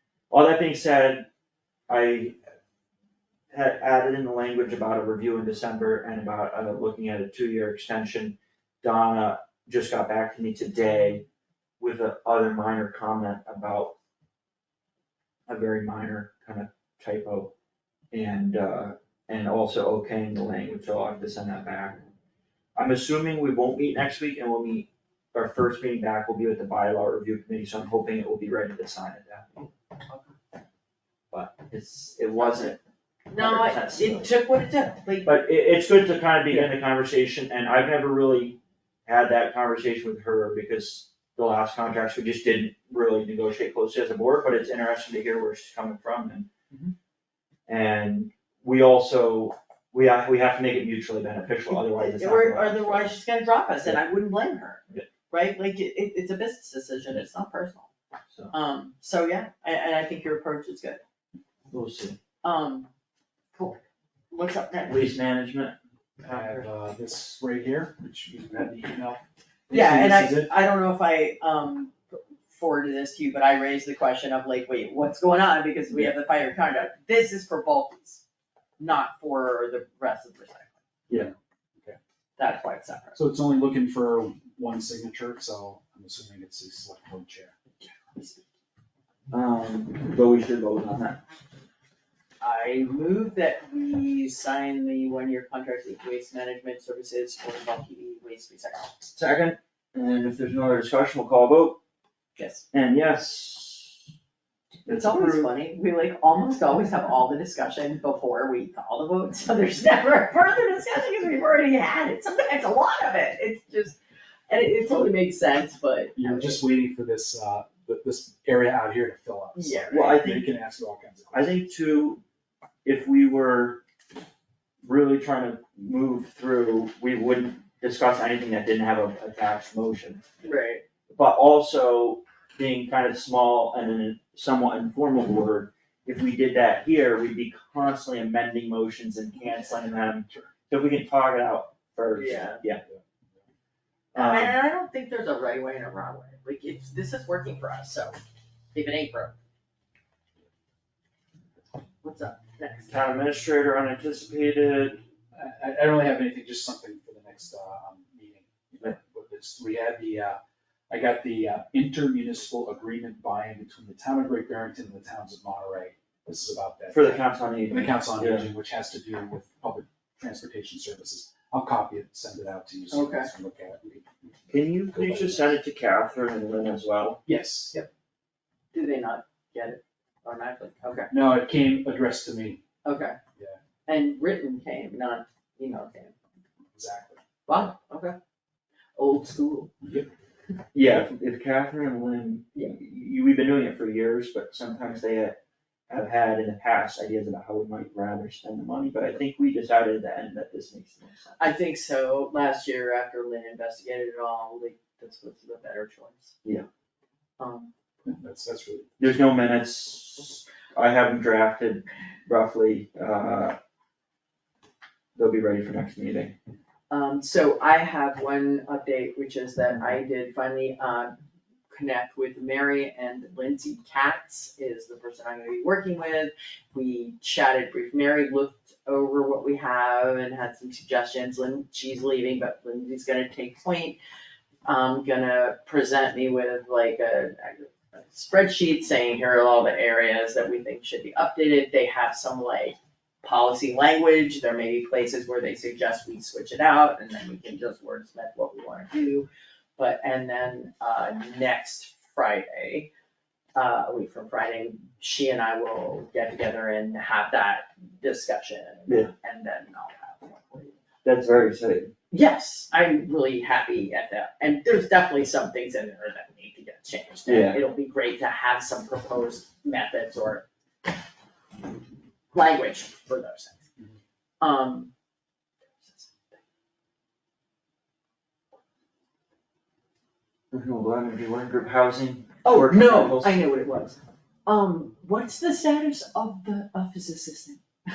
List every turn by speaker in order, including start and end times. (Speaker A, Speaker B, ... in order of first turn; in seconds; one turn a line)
Speaker A: 0.3-1.3
Speaker A: 1.9-2.4
Speaker A: 3.5-11.2
Speaker A: 11.8-13.9
Speaker A: 15.5-17.5
Speaker A: 18.1-22.0
Speaker A: 22.8-29.7
Speaker B: 30.1-30.3
Speaker A: 31.3-32.8
Speaker B: 32.4-32.8
Speaker B: 33.3-35.4
Speaker A: 33.4-34.3
Speaker A: 35.2-46.5
Speaker A: 47.7-53.1
Speaker B: 51.7-57.9
Speaker B: 58.5-61.0
Speaker A: 61.7-62.2
Speaker B: 62.4-62.9
Speaker B: 63.5-65.1
Speaker A: 64.9-66.6
Speaker C: 66.2-70.5
Speaker B: 69.7-78.2
Speaker B: 78.8-80.7
Speaker C: 81.1-82.0
Speaker B: 82.4-83.2
Speaker C: 83.1-87.5
Speaker B: 88.1-88.4
Speaker A: 89.3-91.2
Speaker B: 92.4-98.9
Speaker A: 99.1-101.8
Speaker B: 102.3-102.6
Speaker A: 102.7-104.0
Speaker A: 104.8-105.5
Speaker B: 104.8-116.6
Speaker C: 116.2-121.7
Speaker B: 119.5-120.0
Speaker A: 119.9-120.5
Speaker A: 121.3-122.2
Speaker A: 122.8-123.8
Speaker A: 124.8-130.3
Speaker B: 130.4-130.8
Speaker A: 131.1-142.8
Speaker B: 142.1-142.6
Speaker A: 144.1-144.5
Speaker B: 144.1-148.2
Speaker B: 148.7-149.3
Speaker B: 152.0-152.9
Speaker A: 152.9-155.0
Speaker C: 155.3-175.6
Speaker A: 166.9-168.5
Speaker B: 172.9-173.3
Speaker A: 174.5-177.2
Speaker C: 177.2-177.7
Speaker B: 178.7-181.1
Speaker C: 181.1-182.6
Speaker B: 182.8-183.2
Speaker B: 183.9-186.1
Speaker C: 186.7-187.2
Speaker B: 187.4-188.2
Speaker B: 188.9-189.7
Speaker C: 189.8-190.1
Speaker A: 190.7-195.4
Speaker A: 195.9-201.4
Speaker B: 201.4-206.3
Speaker B: 207.4-207.7
Speaker C: 208.0-208.9
Speaker A: 209.0-213.6
Speaker A: 215.1-216.3
Speaker B: 216.9-221.2
Speaker B: 221.7-234.0
Speaker B: 234.6-252.9
Speaker B: 253.5-260.8
Speaker A: 258.9-259.1
Speaker A: 261.0-261.9
Speaker B: 262.1-270.4
Speaker A: 267.3-267.6
Speaker B: 272.3-273.6
Speaker B: 274.4-274.9
Speaker B: 275.8-276.4
Speaker A: 280.5-283.4
Speaker B: 282.4-287.6